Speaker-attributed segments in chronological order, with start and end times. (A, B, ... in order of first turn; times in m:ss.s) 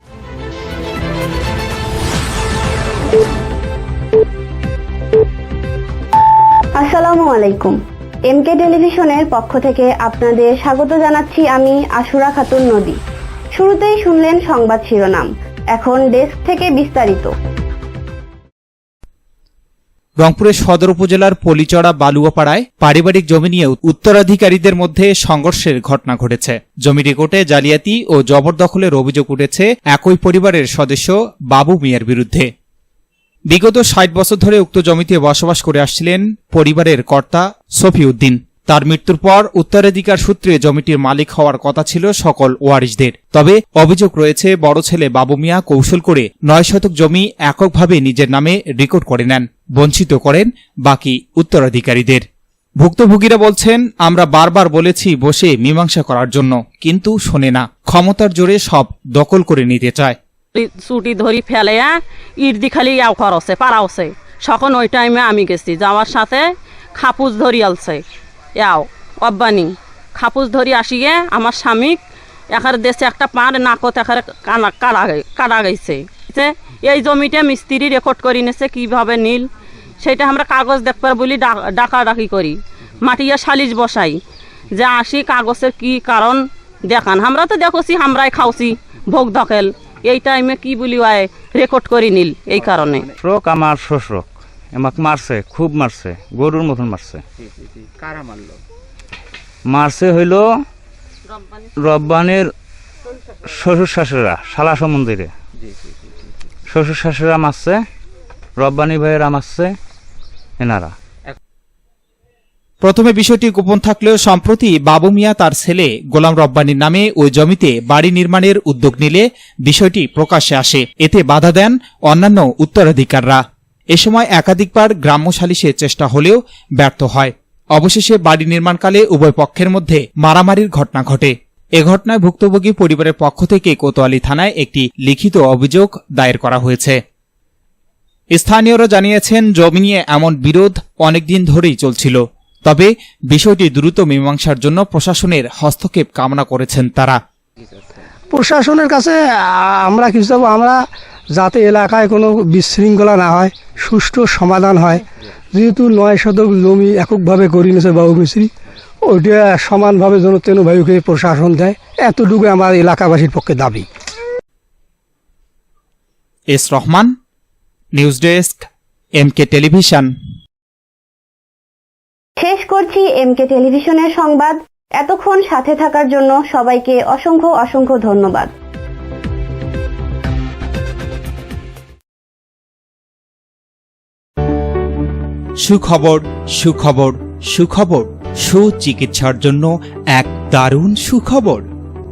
0:06.8-0:13.0 A
0:13.5-0:17.3 A
0:20.2-0:32.5 B
0:33.5-0:52.2 B
0:52.8-1:00.2 B
1:00.5-1:06.4 C
1:07.0-1:08.0 C
1:08.6-1:12.0 C
1:12.5-1:19.5 C
1:20.0-1:24.2 C
1:24.7-1:33.1 C
1:33.1-1:37.2 D
1:39.7-1:40.5 D
1:41.8-1:42.5 D
1:43.5-1:45.3 D
1:46.7-1:47.8 D
1:48.6-1:49.7 D
1:50.6-1:50.9 D
1:52.8-2:03.4 B
2:03.9-2:17.0 B
2:18.3-2:27.2 B
2:28.3-2:30.8 E
2:31.3-2:38.5 E
2:39.0-2:43.9 E
2:46.5-2:47.1 B
2:48.0-2:50.1 B
2:52.4-2:58.5 A
3:05.6-3:11.7 B